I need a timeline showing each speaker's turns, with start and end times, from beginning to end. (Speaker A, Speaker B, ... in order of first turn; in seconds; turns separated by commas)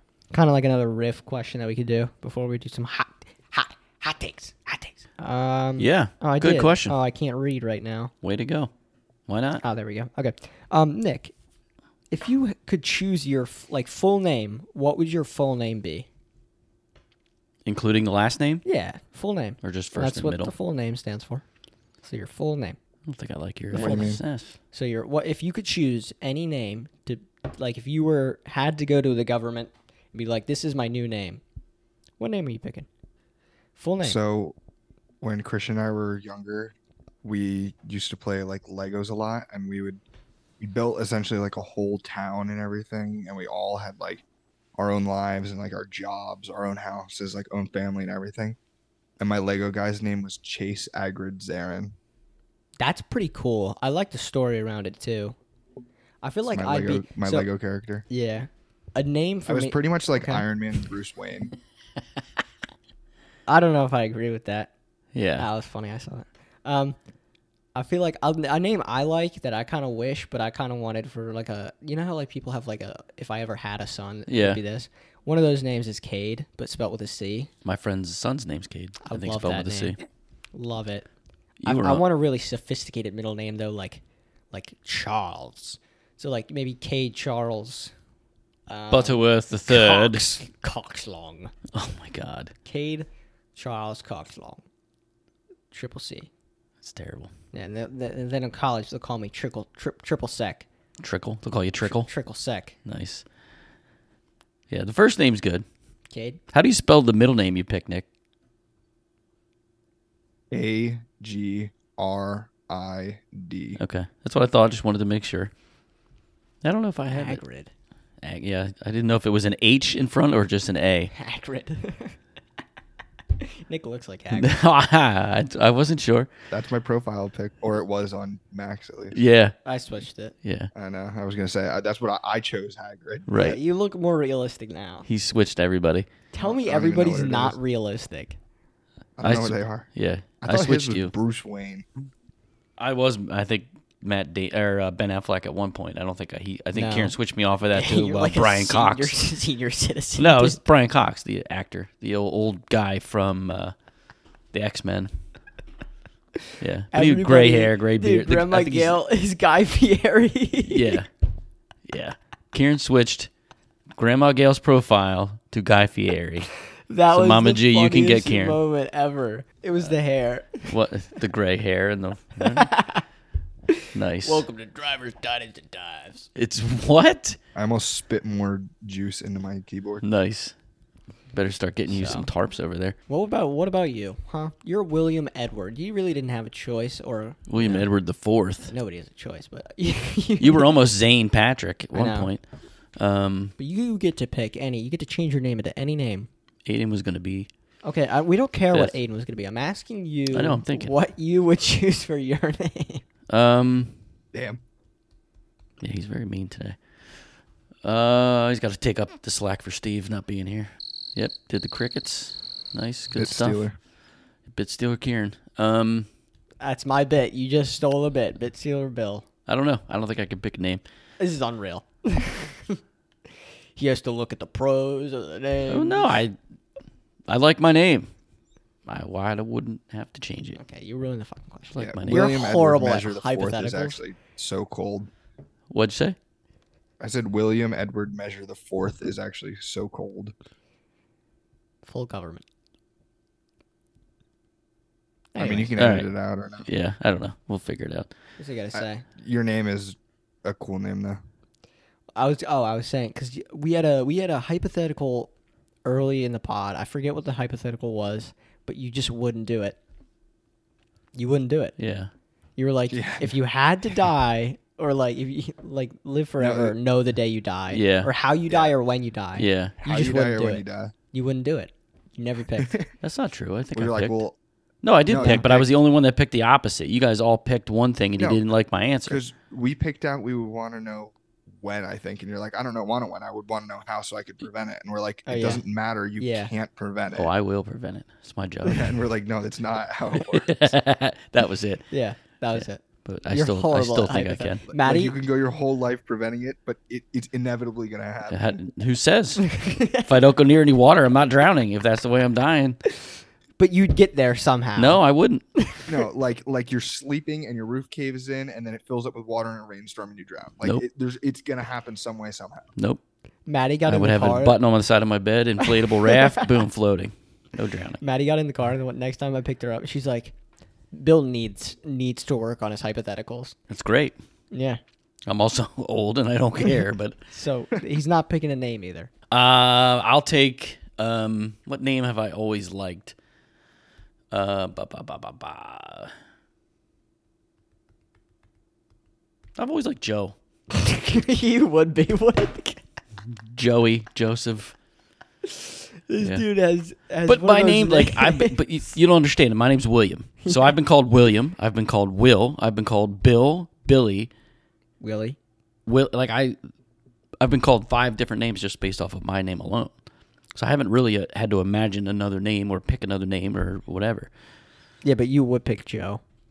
Speaker A: 0.3-8.1, Speaker B: 5.8-7.0, Speaker B: 8.2-8.7, Speaker B: 9.3-9.6, Speaker A: 9.6-11.3, Speaker A: 12.1-16.1, Speaker B: 17.6-18.6, Speaker A: 18.6-21.4, Speaker B: 19.6-20.5, Speaker A: 22.0-22.8, Speaker B: 23.1-24.6, Speaker C: 23.7-24.2, Speaker A: 23.7-24.2, Speaker A: 24.7-31.4, Speaker A: 32.2-32.9, Speaker A: 33.8-34.2, Speaker C: 34.0-34.6, Speaker C: 35.2-40.0, Speaker C: 40.6-44.2, Speaker C: 44.8-48.6, Speaker C: 49.2-52.0, Speaker A: 52.8-55.4, Speaker A: 56.2-57.5, Speaker C: 56.5-58.1, Speaker A: 58.1-60.5, Speaker C: 59.5-61.5, Speaker A: 63.5-64.7, Speaker B: 65.2-65.5, Speaker A: 65.4-67.0, Speaker A: 67.8-77.5, Speaker B: 74.3-74.6, Speaker B: 77.7-80.0, Speaker A: 79.0-80.0, Speaker A: 80.5-81.1, Speaker B: 81.6-82.0, Speaker A: 81.7-87.9, Speaker A: 88.7-91.5, Speaker B: 88.9-90.4, Speaker B: 91.7-92.5, Speaker A: 92.7-94.6, Speaker A: 95.7-96.3, Speaker B: 96.8-97.3, Speaker A: 97.5-100.7, Speaker B: 101.0-102.1, Speaker A: 101.8-102.8, Speaker B: 102.9-103.2, Speaker B: 104.7-105.7, Speaker A: 106.1-106.4, Speaker B: 106.5-108.1, Speaker C: 110.5-113.8, Speaker B: 113.8-115.5, Speaker B: 116.6-117.4, Speaker A: 117.1-117.7, Speaker B: 118.2-121.1, Speaker A: 121.1-122.2, Speaker A: 123.4-124.5, Speaker B: 124.3-126.3, Speaker C: 126.5-129.2, Speaker B: 129.1-129.6, Speaker A: 129.7-130.3, Speaker B: 130.4-130.7, Speaker C: 130.7-133.3, Speaker B: 133.3-133.6, Speaker A: 133.3-135.1, Speaker B: 135.1-136.1, Speaker A: 136.3-138.4, Speaker C: 136.4-137.6, Speaker C: 139.2-139.9, Speaker B: 139.2-141.1, Speaker C: 140.4-141.9, Speaker B: 142.8-149.3, Speaker A: 146.8-147.2, Speaker A: 147.7-150.6, Speaker B: 150.2-153.7, Speaker B: 154.5-155.1, Speaker B: 156.6-159.0, Speaker A: 156.9-161.0, Speaker B: 160.7-161.1, Speaker B: 161.9-163.3, Speaker B: 164.0-166.5, Speaker A: 166.9-170.7, Speaker B: 167.1-168.6, Speaker B: 170.7-172.7, Speaker A: 172.4-173.0, Speaker A: 173.7-176.3, Speaker B: 173.9-174.4, Speaker B: 176.4-177.4, Speaker C: 177.6-180.0, Speaker B: 180.0-180.5, Speaker B: 181.3-183.0, Speaker A: 181.9-182.3, Speaker A: 183.1-187.9, Speaker B: 187.5-188.7, Speaker A: 188.7-190.7, Speaker B: 190.4-192.4, Speaker A: 191.9-192.3, Speaker B: 193.0-193.5, Speaker A: 193.6-196.3, Speaker B: 196.7-197.5, Speaker A: 197.8-203.0, Speaker B: 200.3-200.9, Speaker B: 203.3-203.9, Speaker C: 204.3-204.6, Speaker B: 205.8-206.8, Speaker B: 207.8-213.7, Speaker C: 213.1-213.8, Speaker B: 214.5-216.1, Speaker A: 216.6-219.2, Speaker B: 219.5-220.8, Speaker A: 221.2-222.8, Speaker A: 223.8-226.2, Speaker B: 225.7-226.4, Speaker B: 227.3-228.1, Speaker B: 228.9-230.6, Speaker A: 230.6-234.0, Speaker B: 231.7-232.3, Speaker C: 231.8-235.1, Speaker B: 235.7-236.2, Speaker C: 237.0-240.3, Speaker A: 241.8-242.4, Speaker A: 245.3-245.8, Speaker C: 245.4-246.7, Speaker B: 245.8-246.1, Speaker B: 246.6-248.1, Speaker A: 248.4-249.1, Speaker C: 248.7-251.2, Speaker A: 252.2-255.3, Speaker A: 255.8-259.8, Speaker A: 261.1-261.8, Speaker B: 261.8-262.1, Speaker A: 262.6-272.8, Speaker C: 262.9-263.3, Speaker C: 266.4-266.8, Speaker B: 267.7-268.1, Speaker B: 269.4-269.8, Speaker C: 269.8-270.9, Speaker C: 272.6-272.9, Speaker B: 273.0-274.2, Speaker C: 273.7-274.4, Speaker B: 274.8-279.2, Speaker C: 275.1-275.7, Speaker C: 279.1-287.3, Speaker A: 285.3-285.6, Speaker A: 286.2-286.5, Speaker B: 287.1-288.9, Speaker C: 288.6-290.7, Speaker B: 290.2-291.9, Speaker A: 291.9-295.2, Speaker B: 292.5-294.6, Speaker C: 294.7-298.6, Speaker B: 298.3-302.8, Speaker A: 299.4-300.1, Speaker A: 303.6-305.0, Speaker B: 304.8-305.4, Speaker A: 305.6-305.9, Speaker C: 305.9-312.7, Speaker A: 313.5-314.6, Speaker B: 313.9-318.0, Speaker A: 315.6-316.5, Speaker A: 318.0-320.4, Speaker A: 320.9-323.6, Speaker B: 323.7-324.2, Speaker A: 324.5-324.8, Speaker B: 325.3-327.2, Speaker A: 327.3-329.1, Speaker B: 329.3-333.1, Speaker B: 334.3-336.1, Speaker B: 339.6-340.4, Speaker A: 340.7-342.8, Speaker B: 343.5-344.7, Speaker A: 345.5-348.6, Speaker B: 347.3-354.3, Speaker A: 350.5-350.7, Speaker A: 355.0-355.4, Speaker B: 355.9-356.6, Speaker B: 357.4-359.9, Speaker B: 360.6-364.3, Speaker A: 365.0-366.2